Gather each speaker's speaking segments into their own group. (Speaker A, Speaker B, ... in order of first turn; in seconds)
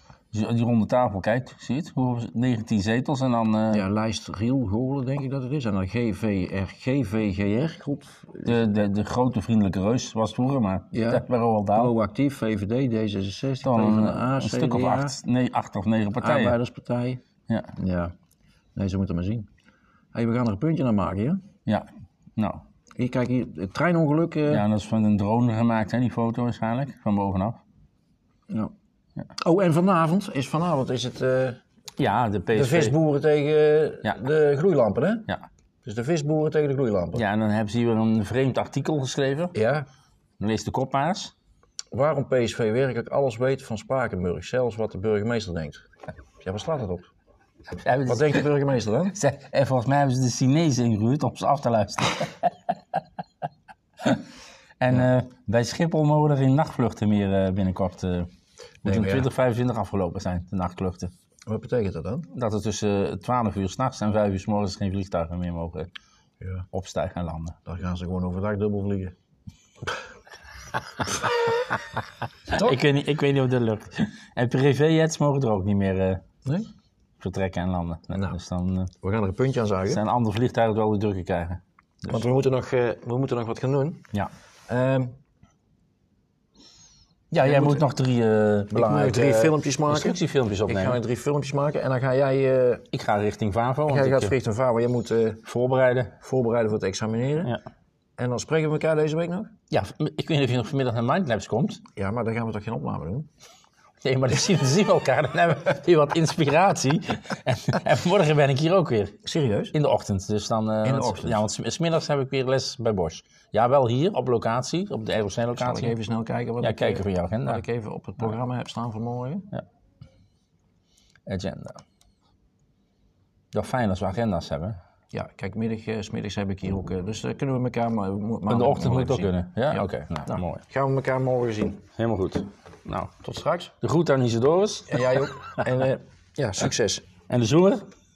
Speaker A: 0.3-3.9, 8.5-11.9, 13.6-16.6, 17.5-17.7, 21.7-22.6, 24.5-27.6, 32.0-33.0, 37.1-39.5, 40.4-41.3, 47.8-48.5, 49.1-52.7, 54.8-58.3, 58.8-61.1, 62.3-65.9, 66.7-67.6, 72.5-76.2, 77.2-78.9, 79.9-82.2, 87.3-91.0, 92.9-94.3, 95.5-96.2, 99.7-101.8, 104.0-109.2, 109.7-116.0, 116.6-117.6, 121.3-121.8, 123.5-124.8, 128.5-130.6, 132.0-133.1, 133.8-135.3, 137.3-137.9
Speaker B: 3.7-8.6, 10.9-15.2, 16.2-17.2, 17.8-18.1, 18.8-19.5, 20.1-21.4, 23.0-24.6, 29.4-31.6, 32.5-35.3, 35.9-37.2, 39.5-39.9, 41.9-45.9, 46.4-47.1, 48.0-49.1, 58.9-59.3, 61.5-62.3, 67.7-69.1, 79.0-80.0, 82.1-84.0, 84.7-85.1, 87.4-87.9, 88.7-92.9, 93.9-95.4, 96.2-97.5, 98.2-99.5, 102.0-103.3, 109.2-109.8, 110.8-111.4, 115.6-119.5, 125.1-131.8, 133.2-133.7, 134.9-137.1